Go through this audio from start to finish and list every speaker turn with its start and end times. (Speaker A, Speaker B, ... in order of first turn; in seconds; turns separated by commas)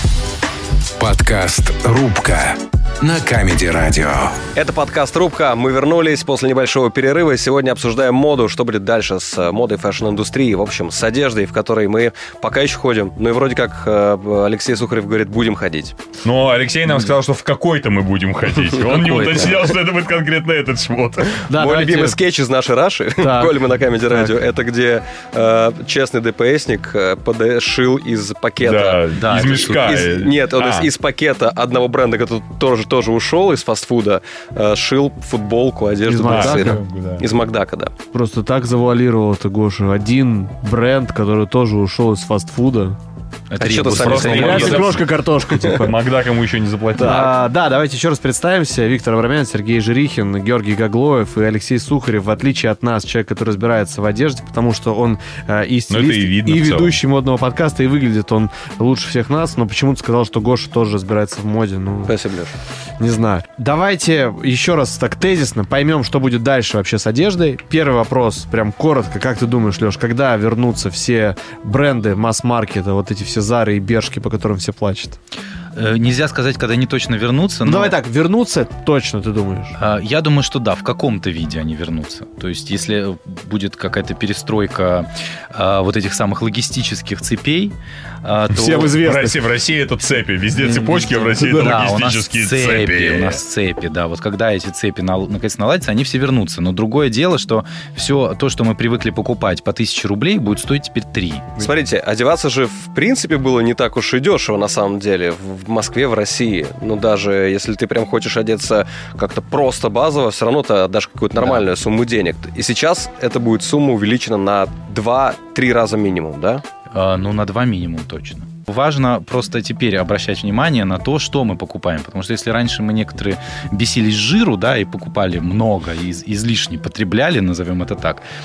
Speaker A: 1.0-4.4, Speaker B: 4.5-15.9, Speaker C: 16.2-21.5, Speaker D: 18.9-19.7, Speaker E: 21.5-22.2, Speaker B: 21.5-37.9, Speaker E: 23.2-23.6, Speaker E: 24.1-24.4, Speaker C: 28.6-30.9, Speaker D: 29.1-29.9, Speaker E: 36.1-36.8, Speaker C: 36.2-37.3, Speaker E: 38.1-43.0, Speaker D: 43.5-44.9, Speaker B: 43.6-45.9, Speaker C: 43.9-45.1, Speaker E: 44.2-46.0, Speaker C: 45.6-47.3, Speaker E: 47.0-62.1, Speaker B: 47.0-47.3, Speaker C: 55.9-57.0, Speaker B: 62.1-62.5, Speaker E: 63.0-75.2, Speaker D: 75.8-78.0, Speaker E: 77.7-79.8, Speaker D: 79.8-89.0, Speaker E: 88.5-89.4, Speaker C: 88.5-93.4, Speaker D: 90.7-101.6, Speaker E: 91.4-91.7, Speaker B: 101.6-116.6, Speaker D: 111.4-111.7, Speaker D: 116.9-128.2